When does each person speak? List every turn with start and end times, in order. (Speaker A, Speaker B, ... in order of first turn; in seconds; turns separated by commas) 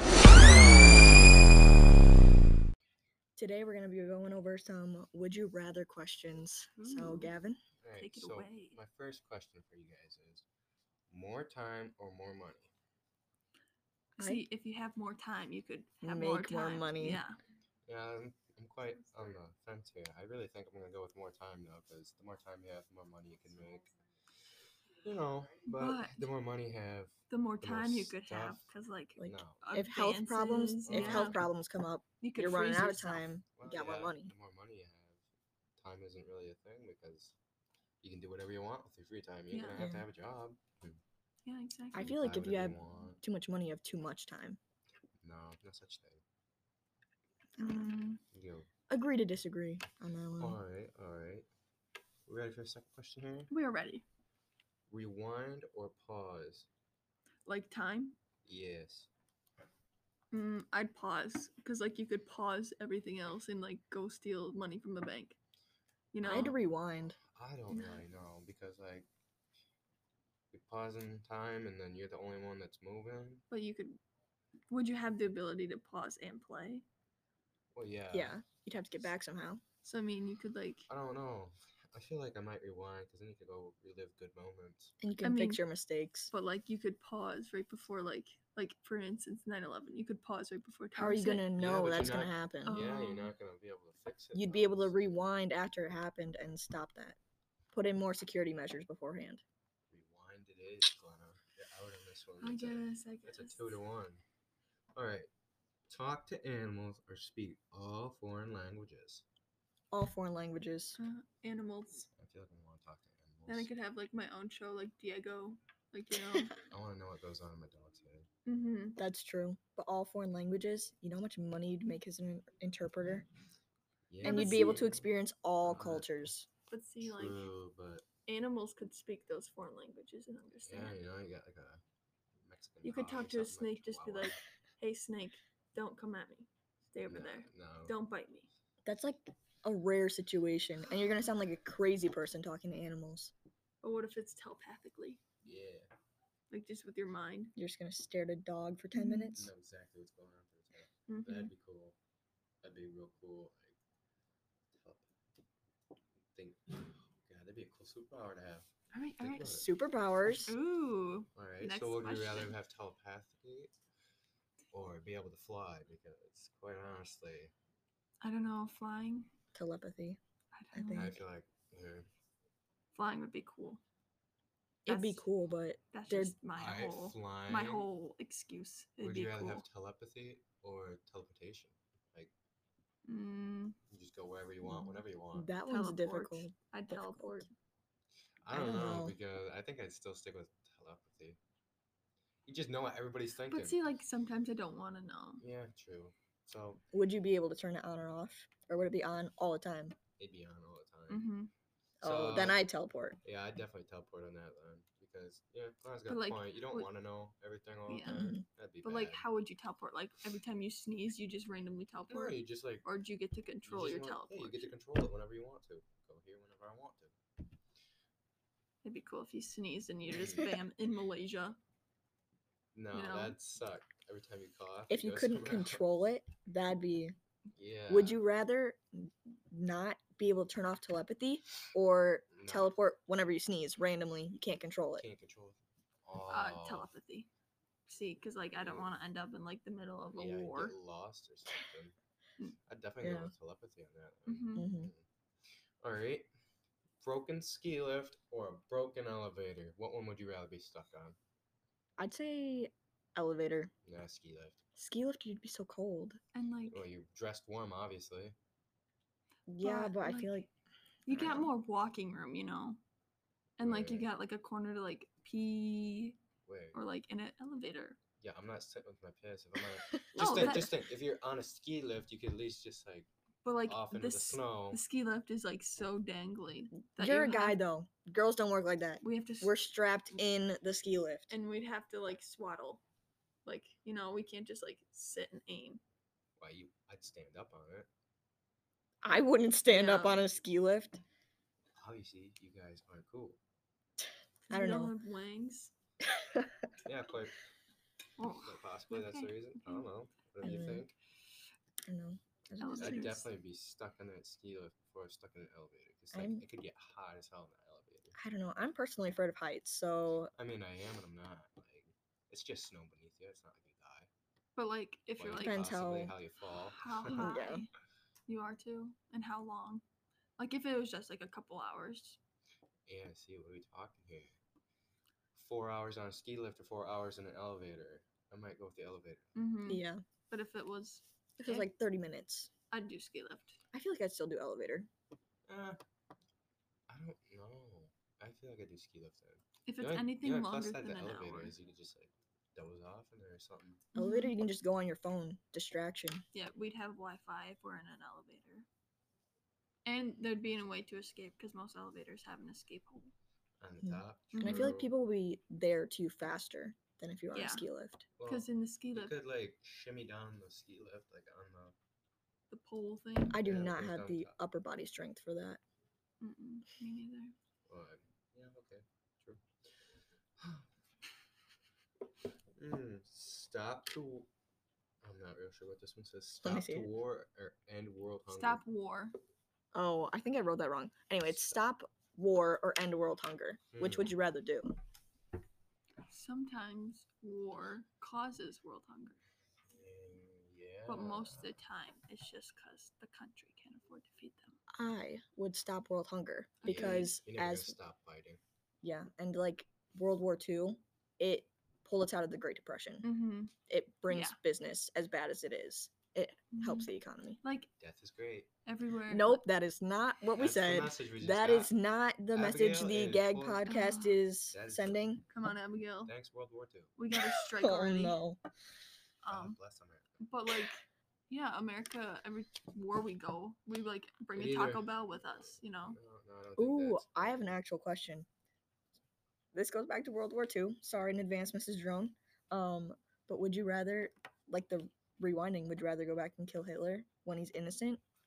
Speaker A: 3.4-7.6, Speaker B: 6.8-7.3, Speaker C: 7.8-10.4, Speaker B: 8.0-8.8, Speaker C: 11.1-12.7, Speaker B: 14.2-17.4, Speaker A: 16.0-17.2, Speaker C: 17.9-23.9, Speaker C: 25.0-29.6, Speaker B: 25.7-26.3, Speaker B: 27.3-31.4, Speaker A: 29.2-34.3, Speaker C: 30.9-31.4, Speaker B: 32.2-33.4, Speaker C: 33.5-35.2, Speaker C: 35.8-37.4, Speaker C: 38.0-41.0, Speaker B: 39.5-39.9, Speaker A: 39.8-40.1, Speaker B: 41.5-42.0, Speaker A: 41.9-44.6, Speaker C: 42.0-43.2, Speaker C: 45.2-46.2, Speaker A: 47.6-48.1, Speaker B: 47.6-48.2, Speaker C: 48.3-48.7, Speaker A: 48.9-50.6, Speaker C: 50.4-51.5, Speaker C: 52.3-53.5, Speaker B: 53.5-54.0, Speaker C: 54.9-56.7, Speaker B: 57.5-58.2, Speaker C: 58.5-59.1, Speaker B: 60.3-65.4, Speaker B: 66.1-66.6, Speaker A: 66.2-67.2, Speaker C: 66.2-66.5, Speaker C: 67.2-69.1, Speaker B: 67.7-68.0, Speaker C: 70.5-73.4, Speaker B: 73.5-74.0, Speaker B: 74.7-76.8, Speaker C: 77.8-78.4, Speaker A: 78.1-79.6, Speaker B: 79.8-80.9, Speaker C: 80.9-84.9, Speaker A: 85.0-86.3, Speaker B: 85.2-85.6, Speaker B: 86.3-91.5, Speaker A: 91.0-92.8, Speaker C: 91.6-95.3, Speaker B: 92.7-93.3, Speaker A: 94.3-97.2, Speaker A: 97.7-99.4, Speaker C: 99.9-104.2, Speaker B: 102.4-103.8, Speaker C: 105.0-105.3, Speaker C: 105.9-109.2, Speaker A: 109.9-111.0, Speaker B: 111.0-112.1, Speaker C: 112.2-113.7, Speaker B: 113.5-116.5, Speaker A: 116.2-116.5, Speaker C: 116.7-118.3, Speaker B: 118.5-119.0, Speaker A: 119.0-123.3, Speaker C: 124.1-125.0, Speaker B: 124.2-124.9, Speaker A: 124.2-126.5, Speaker C: 125.6-126.2, Speaker B: 126.7-127.5, Speaker C: 127.0-128.1, Speaker B: 128.3-131.0, Speaker C: 130.6-131.8, Speaker C: 132.4-134.4, Speaker B: 132.8-138.5, Speaker C: 137.0-138.0, Speaker A: 138.8-143.3, Speaker B: 143.8-145.2, Speaker C: 145.4-145.9, Speaker B: 146.5-147.5, Speaker A: 147.6-149.5, Speaker B: 148.9-149.4, Speaker C: 149.3-152.0, Speaker B: 151.1-151.5, Speaker C: 152.6-153.8, Speaker C: 154.7-155.1, Speaker C: 156.3-159.7, Speaker B: 158.9-159.6, Speaker A: 159.5-160.6, Speaker B: 160.3-162.6, Speaker C: 161.3-163.7, Speaker C: 164.7-167.5, Speaker B: 168.2-169.3, Speaker A: 169.5-170.2, Speaker B: 170.5-171.2, Speaker A: 170.7-171.2, Speaker C: 170.9-172.1, Speaker B: 172.9-173.8, Speaker A: 174.8-176.4, Speaker B: 174.9-175.3, Speaker B: 175.9-179.7, Speaker C: 176.5-177.9, Speaker C: 179.0-182.3, Speaker B: 183.1-183.8, Speaker C: 183.9-185.5, Speaker A: 184.6-187.4, Speaker B: 185.7-187.5, Speaker C: 188.4-191.4, Speaker A: 188.5-189.2, Speaker C: 192.5-193.8, Speaker B: 193.5-195.4, Speaker C: 195.4-196.8, Speaker A: 196.9-199.9, Speaker C: 200.2-201.3, Speaker B: 201.1-201.5, Speaker A: 202.0-203.2, Speaker C: 202.0-202.7, Speaker C: 203.2-209.3, Speaker B: 206.1-206.9, Speaker B: 207.9-214.8, Speaker A: 208.1-208.4, Speaker C: 212.1-212.9, Speaker C: 213.6-217.2, Speaker B: 218.8-221.6, Speaker C: 220.1-220.5, Speaker C: 222.7-225.8, Speaker B: 222.9-223.4, Speaker A: 224.9-227.2, Speaker C: 227.6-228.2, Speaker A: 227.9-235.1, Speaker C: 232.3-232.7, Speaker C: 235.0-236.9, Speaker B: 236.3-237.3, Speaker B: 237.9-240.8, Speaker C: 238.6-238.9, Speaker C: 240.1-242.0, Speaker C: 242.7-245.1, Speaker A: 243.0-243.3, Speaker B: 244.3-244.7, Speaker A: 244.5-244.9, Speaker C: 245.8-246.3, Speaker C: 247.0-251.2, Speaker A: 252.0-253.7, Speaker C: 253.8-254.6, Speaker A: 254.8-256.2, Speaker B: 256.3-256.9, Speaker C: 256.7-258.4, Speaker A: 259.5-260.5, Speaker B: 259.6-260.3, Speaker B: 261.1-262.8, Speaker A: 261.1-261.5, Speaker B: 263.6-266.2, Speaker C: 263.6-264.1, Speaker C: 266.5-266.8, Speaker B: 266.7-268.0, Speaker C: 268.2-273.1, Speaker A: 269.8-270.7, Speaker B: 270.1-270.7, Speaker B: 273.4-277.6, Speaker C: 273.6-274.8, Speaker A: 277.0-281.3, Speaker B: 279.0-279.6, Speaker B: 281.3-282.8, Speaker B: 283.4-285.8, Speaker C: 286.4-287.9, Speaker A: 289.0-291.0, Speaker B: 289.7-290.3, Speaker C: 291.8-293.4, Speaker B: 294.5-295.7, Speaker A: 294.5-294.9, Speaker A: 296.2-296.5, Speaker C: 296.9-297.4, Speaker B: 298.2-299.9, Speaker C: 298.4-301.0, Speaker A: 300.4-300.9, Speaker A: 301.9-303.2, Speaker B: 302.6-303.2, Speaker C: 302.8-308.2, Speaker A: 306.1-306.4, Speaker A: 308.2-310.3, Speaker C: 310.4-314.1, Speaker B: 314.6-315.7, Speaker C: 315.2-317.3, Speaker A: 315.4-316.2, Speaker B: 316.5-317.7, Speaker A: 317.1-317.6, Speaker B: 318.3-319.8, Speaker B: 320.4-322.2, Speaker C: 322.9-324.4, Speaker C: 325.3-329.4, Speaker B: 329.4-331.7, Speaker A: 329.7-330.0, Speaker A: 331.4-332.5, Speaker B: 332.7-333.6, Speaker A: 333.7-334.9, Speaker C: 335.5-335.8, Speaker C: 336.9-343.8, Speaker B: 339.7-341.6, Speaker B: 343.9-344.4, Speaker A: 343.9-346.2, Speaker B: 346.3-348.7, Speaker B: 349.9-353.1, Speaker C: 353.6-354.9, Speaker A: 353.8-358.1, Speaker B: 354.3-354.7, Speaker B: 357.3-357.7, Speaker C: 358.2-361.8, Speaker B: 358.3-359.1, Speaker B: 362.5-363.4, Speaker A: 363.3-365.6, Speaker C: 363.4-364.4, Speaker B: 366.2-367.3, Speaker C: 367.7-370.7, Speaker C: 372.6-374.3, Speaker C: 375.0-378.6, Speaker A: 376.4-376.9, Speaker B: 378.3-379.2, Speaker A: 379.7-384.8, Speaker C: 383.7-384.1, Speaker B: 386.1-389.2, Speaker C: 389.7-391.6, Speaker B: 390.9-394.6, Speaker A: 394.7-397.8, Speaker B: 396.6-397.2, Speaker C: 396.6-398.4, Speaker A: 398.8-403.1, Speaker B: 403.0-403.5, Speaker A: 403.7-407.4, Speaker B: 404.1-404.4, Speaker B: 406.5-406.9, Speaker B: 407.4-407.7, Speaker C: 407.8-408.5, Speaker B: 408.7-409.4, Speaker A: 409.1-415.2, Speaker C: 410.3-411.8, Speaker C: 412.3-413.7, Speaker B: 413.6-414.2, Speaker C: 414.5-415.2, Speaker B: 415.3-416.1, Speaker C: 416.0-416.9, Speaker B: 417.0-418.2, Speaker A: 417.1-418.4, Speaker B: 419.2-419.6, Speaker C: 419.3-420.2, Speaker B: 420.2-426.0, Speaker C: 424.3-427.6, Speaker A: 426.6-428.3, Speaker A: 429.5-438.0